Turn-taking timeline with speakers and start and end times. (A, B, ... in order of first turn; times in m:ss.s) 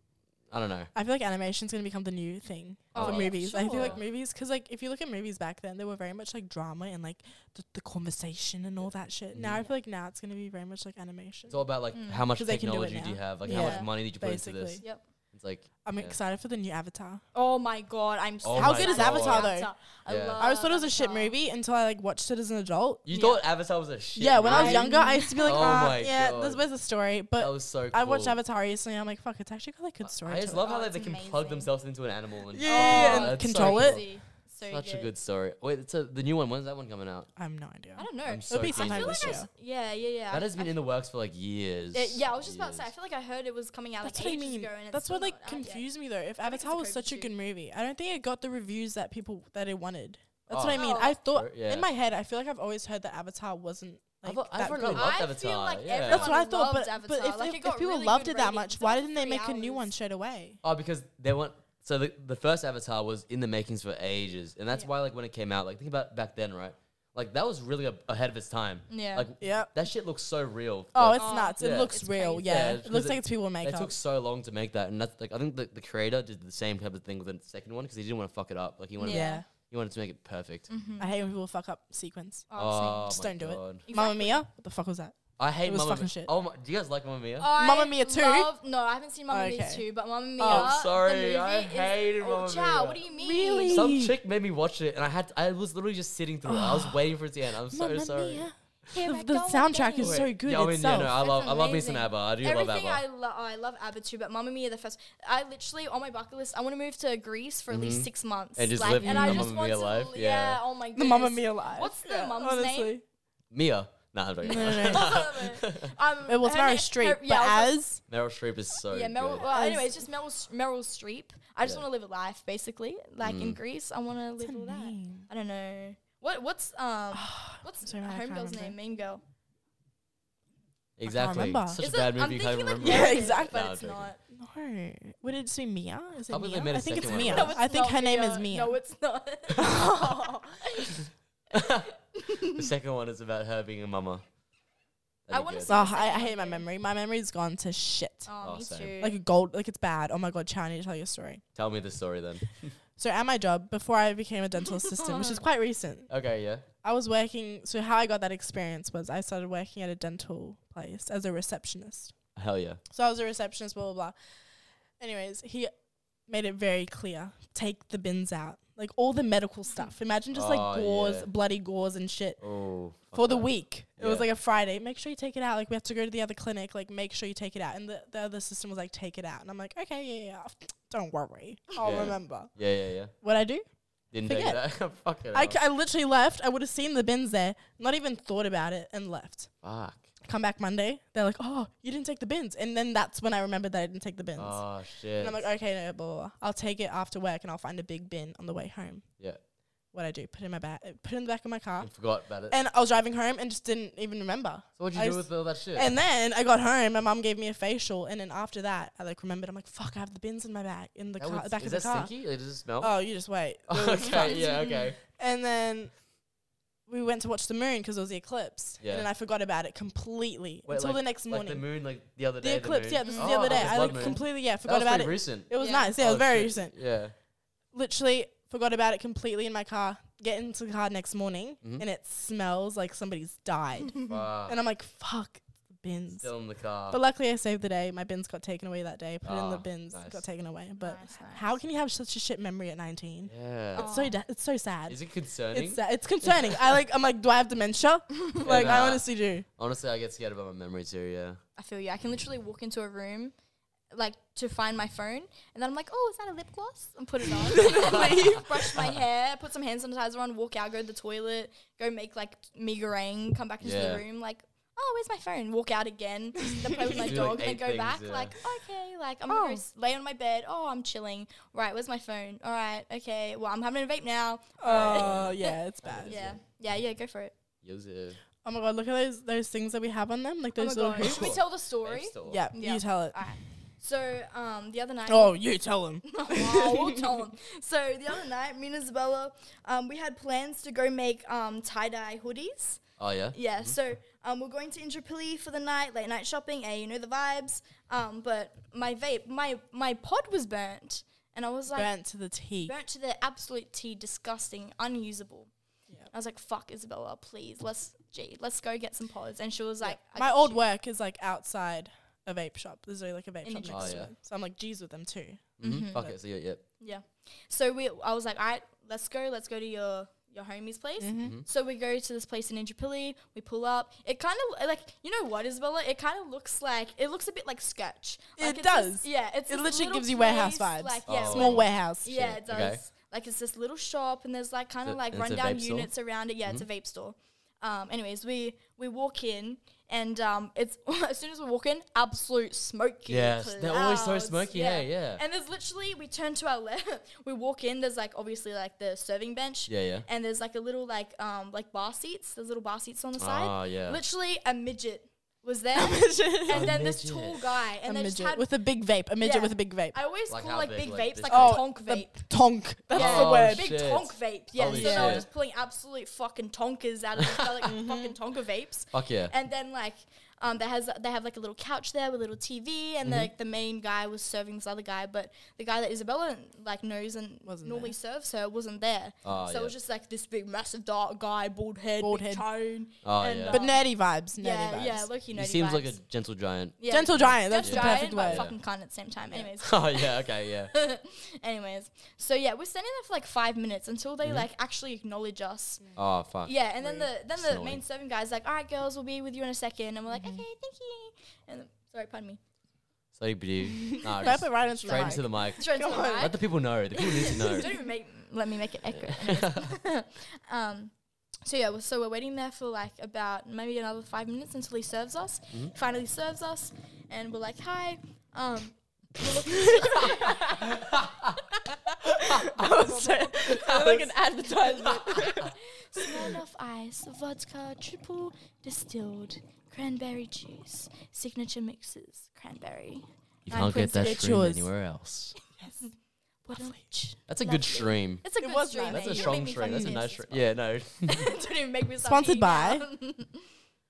0:00.5-0:00.9 A
0:01.0-0:11.6 B
0:02.9-0:04.0 C
0:03.0-0:04.0 A
0:09.3-0:09.7 A
0:11.5-0:16.2 A
0:11.9-0:12.3 C
0:12.4-0:14.8 B
0:13.5-0:13.9 C
0:15.8-0:17.2 B
0:17.3-0:21.4 C
0:18.4-0:19.5 A
0:18.6-0:19.7 B
0:20.1-0:20.4 A
0:20.4-0:23.4 B
0:23.0-0:26.6 A
0:24.2-0:30.7 B
0:24.4-0:25.9 C
0:27.4-0:28.4 A
0:30.0-0:34.1 A
0:30.6-0:31.7 C
0:32.5-0:34.0 B
0:32.6-0:35.1 C
0:34.7-0:37.3 A
0:37.4-0:39.5 B
0:38.0-0:40.7 C
0:38.3-0:39.4 A
0:40.3-0:42.9 A
0:41.9-0:45.8 C
0:44.0-0:55.2 B
0:46.4-0:47.3 C
0:50.5-0:51.9 A
0:50.7-0:51.2 C
0:54.2-0:56.3 A
0:54.6-0:59.9 C
0:56.1-1:00.6 B
1:00.6-1:11.9 A
1:08.9-1:09.3 C
1:09.4-1:09.7 B
1:10.9-1:13.9 B
1:11.1-1:12.8 C
1:12.4-1:20.7 A
1:19.0-1:19.4 C
1:19.0-1:19.4 B
1:20.7-1:21.1 C
1:21.0-1:22.5 B
1:22.5-1:23.1 C
1:22.6-1:23.8 A
1:23.1-1:26.3 B
1:23.9-1:24.4 C
1:25.4-1:27.5 A
1:27.4-1:33.9 C
1:27.6-1:28.5 B
1:29.3-1:29.8 B
1:30.4-1:30.7 B
1:30.5-1:33.0 A
1:33.1-1:34.1 B
1:33.7-1:38.5 A
1:36.4-1:37.0 B
1:37.7-1:41.1 B
1:38.9-1:40.3 C
1:40.0-1:43.0 A
1:41.0-1:53.0 C
1:47.7-1:50.6 A
1:49.0-1:49.5 B
1:51.0-1:53.0 B
1:53.5-1:55.9 A
1:54.4-1:55.2 B
1:54.5-1:57.8 C
1:56.3-1:58.0 B
1:58.1-1:59.4 A
1:58.9-2:09.2 C
1:59.4-2:00.0 B
2:03.2-2:03.6 A
2:04.4-2:05.3 B
2:07.1-2:08.8 B
2:11.0-2:14.1 A
2:11.1-2:11.8 B
2:11.8-2:14.2 C
2:12.8-2:13.6 B
2:14.3-2:18.8 B
2:16.3-2:17.6 A
2:17.0-2:22.7 C
2:19.6-2:20.4 B
2:21.5-2:24.2 A
2:25.3-2:25.8 A
2:25.3-2:26.6 C
2:25.7-2:28.3 B
2:28.3-2:29.2 C
2:28.4-2:28.9 A
2:29.0-2:31.4 B
2:31.6-2:32.7 A
2:33.0-2:36.1 B
2:34.7-2:35.4 C
2:36.1-2:36.6 A
2:36.8-2:42.1 B
2:42.4-2:42.8 A
2:42.9-2:44.1 B
2:45.0-2:45.7 B
2:46.3-2:52.4 B
2:50.3-2:51.3 A
2:52.4-2:54.3 A
2:53.1-3:02.5 B
3:01.8-3:03.1 A
3:03.1-3:03.6 B
3:04.1-3:05.6 A
3:04.2-3:04.6 B
3:05.3-3:09.5 B
3:09.6-3:10.0 A
3:10.2-3:14.6 B
3:14.4-3:15.4 A
3:15.2-3:19.0 B
3:19.9-3:21.9 B
3:21.8-3:22.6 A
3:22.5-3:32.1 B
3:24.8-3:25.9 A
3:31.2-3:33.0 A
3:32.8-3:35.9 B
3:33.7-3:35.0 A
3:34.1-3:34.8 C
3:36.9-3:41.6 B
3:38.8-3:39.1 A
3:40.7-3:47.1 A
3:42.4-3:46.8 B
3:43.0-3:44.2 C
3:45.6-3:45.9 C
3:47.7-3:56.3 B
3:54.1-3:54.6 A
3:56.2-3:57.0 A
3:56.9-4:05.0 B
3:59.2-4:00.2 A
4:00.8-4:01.6 C
4:03.3-4:03.9 A
4:03.8-4:04.2 C
4:04.9-4:06.4 A
4:05.5-4:09.4 B
4:08.4-4:11.4 A
4:11.6-4:13.3 C
4:13.9-4:37.3 C
4:17.5-4:18.7 B
4:17.6-4:18.8 A
4:23.6-4:24.0 A
4:26.8-4:28.4 A
4:29.3-4:29.6 B
4:34.6-4:36.2 B
4:34.7-4:36.4 A
4:37.6-4:38.2 A
4:38.4-4:41.4 B
4:40.6-4:45.4 C
4:41.0-4:42.4 A
4:42.3-4:43.2 B
4:45.1-4:47.3 B
4:46.0-4:52.8 C
4:53.0-4:53.8 A
4:53.3-5:01.9 C
5:01.7-5:02.7 B
5:02.7-5:05.5 C
5:06.1-5:10.6 C
5:09.8-5:16.1 B
5:13.4-5:14.0 C
5:13.7-5:14.1 A
5:15.6-5:16.6 A
5:15.6-5:16.0 C
5:16.8-5:58.5 C
5:21.0-5:21.4 B
5:21.2-5:21.4 A
5:28.4-5:32.2 B
5:31.1-5:32.8 A
5:34.9-5:35.9 A
5:43.1-5:45.2 A
5:49.7-5:50.0 A
5:53.2-5:54.0 A
5:55.7-5:56.8 B
5:56.5-5:57.4 A
5:57.8-6:00.0 B
5:59.2-6:02.2 C
6:00.3-6:01.6 A
6:01.3-6:03.7 B
6:02.9-6:23.8 C
6:02.9-6:05.3 A
6:04.7-6:05.2 B
6:07.2-6:07.6 A
6:07.7-6:08.2 B
6:08.9-6:09.3 A
6:13.0-6:13.3 A
6:17.4-6:18.0 B
6:19.2-6:19.7 A
6:22.0-6:22.4 B
6:23.0-6:23.6 A
6:23.5-6:25.1 B
6:24.4-6:26.0 C
6:25.3-6:28.5 A
6:26.8-6:35.8 C
6:26.9-6:28.5 B
6:29.6-6:30.7 A
6:36.0-6:36.6 A
6:36.4-6:42.4 C
6:37.3-6:37.8 A
6:43.1-6:47.7 A
6:43.8-6:46.3 B
6:44.9-6:46.4 C
6:47.0-6:50.9 C
6:49.0-6:49.7 A
6:51.4-7:14.3 C
6:59.6-7:00.3 B
7:01.0-7:01.2 A
7:02.0-7:06.3 B
7:13.5-7:15.4 A
7:13.5-7:14.7 B
7:15.6-7:15.9 C
7:16.4-7:20.5 C
7:17.3-7:18.3 A
7:18.4-7:20.0 B
7:18.9-7:21.3 A
7:21.0-7:23.5 C
7:22.0-7:22.8 B